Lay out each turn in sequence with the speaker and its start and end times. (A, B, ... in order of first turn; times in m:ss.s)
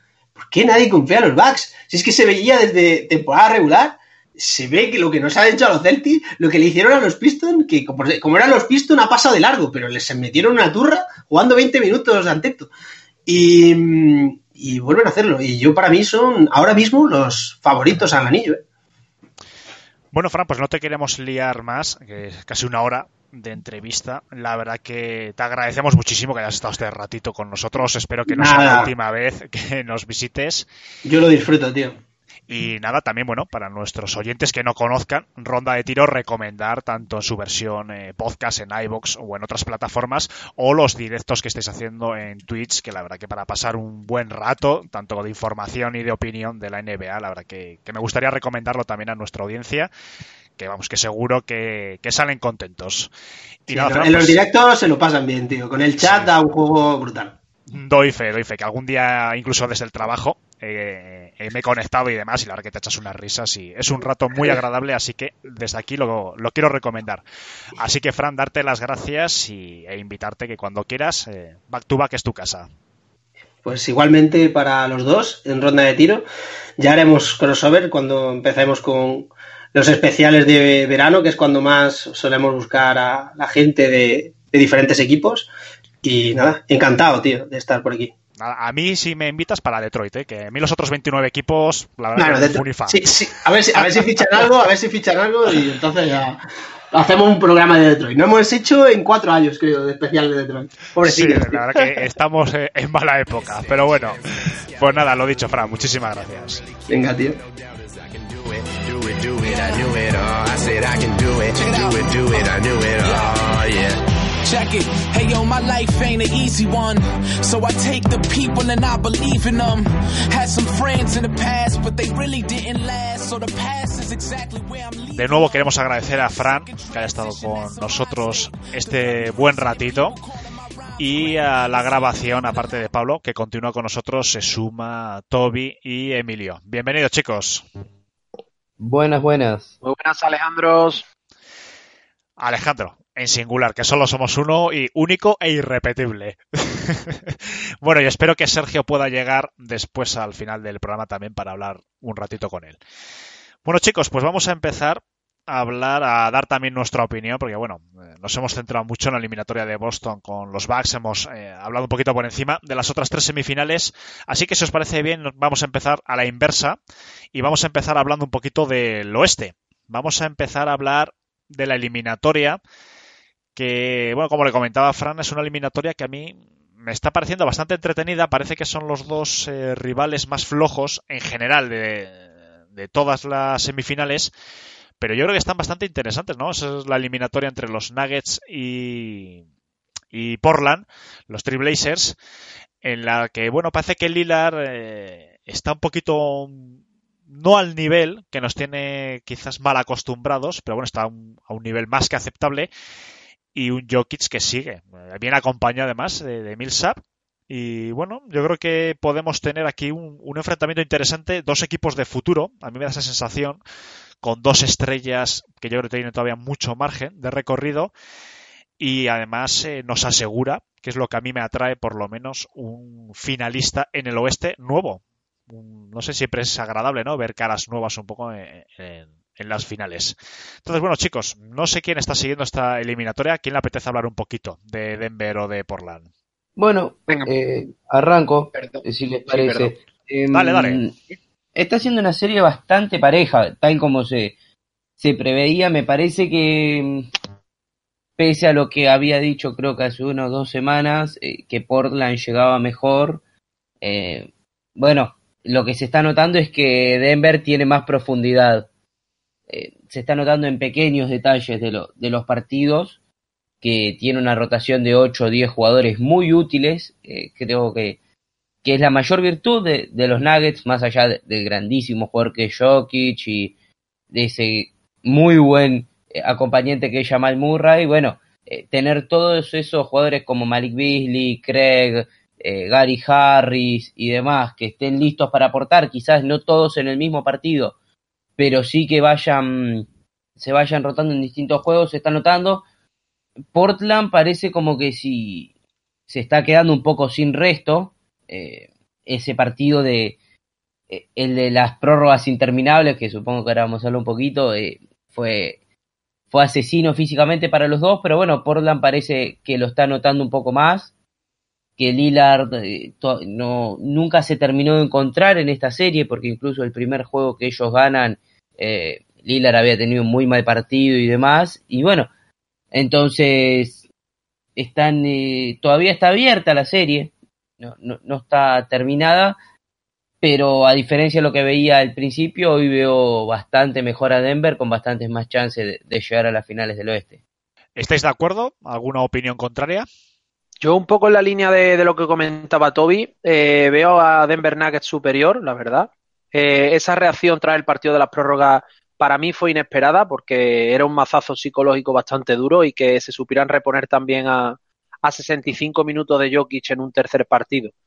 0:00.4-0:12.7 A
0:13.3-0:18.6 A
0:20.1-0:30.7 B
0:28.3-0:28.9 A
0:31.0-0:32.0 A
0:32.5-0:49.9 B
0:50.6-0:53.1 B
0:53.7-0:54.4 B
0:53.7-0:57.4 A
0:56.0-0:56.3 B
0:57.7-1:07.2 B
1:07.8-1:12.7 B
1:13.6-1:16.2 A
1:16.8-1:25.5 A
1:26.0-1:28.1 A
1:28.4-1:33.1 B
1:32.2-1:41.9 A
1:33.7-1:34.4 B
1:41.0-1:44.2 B
1:43.4-1:54.0 C
1:44.8-1:46.6 B
1:46.9-1:47.4 A
1:49.4-1:49.8 D
1:51.6-1:53.4 D
1:54.4-2:12.8 D
2:05.1-2:10.2 B
2:11.0-2:17.6 B
2:18.8-2:19.7 E
2:19.8-2:21.0 F
2:22.4-2:32.8 B
2:33.6-2:46.8 B
2:47.3-2:52.6 B
2:53.6-3:04.3 B
3:05.0-3:09.4 B
3:10.1-3:12.2 B
3:12.8-3:22.7 B
3:23.6-3:33.6 B
3:34.2-3:37.9 B
3:38.8-3:56.0 B
3:56.6-4:01.0 E
3:58.5-3:58.8 F
4:00.3-4:00.8 B
4:01.6-4:04.3 E
4:05.0-4:07.1 E
4:08.2-4:13.2 E
4:13.8-4:18.7 E
4:19.5-4:23.0 E
4:23.6-4:28.0 E
4:28.6-4:33.5 E
4:34.1-4:47.7 E
4:48.4-4:49.9 E
4:50.4-4:52.6 E
4:53.5-4:55.5 E
4:56.1-5:00.2 E
5:00.9-5:05.6 E
5:06.3-5:10.9 E
5:11.8-5:22.1 E
5:22.7-5:23.8 E
5:24.6-5:29.4 E
5:30.2-5:37.2 E
5:37.8-5:39.9 B
5:40.6-5:57.7 F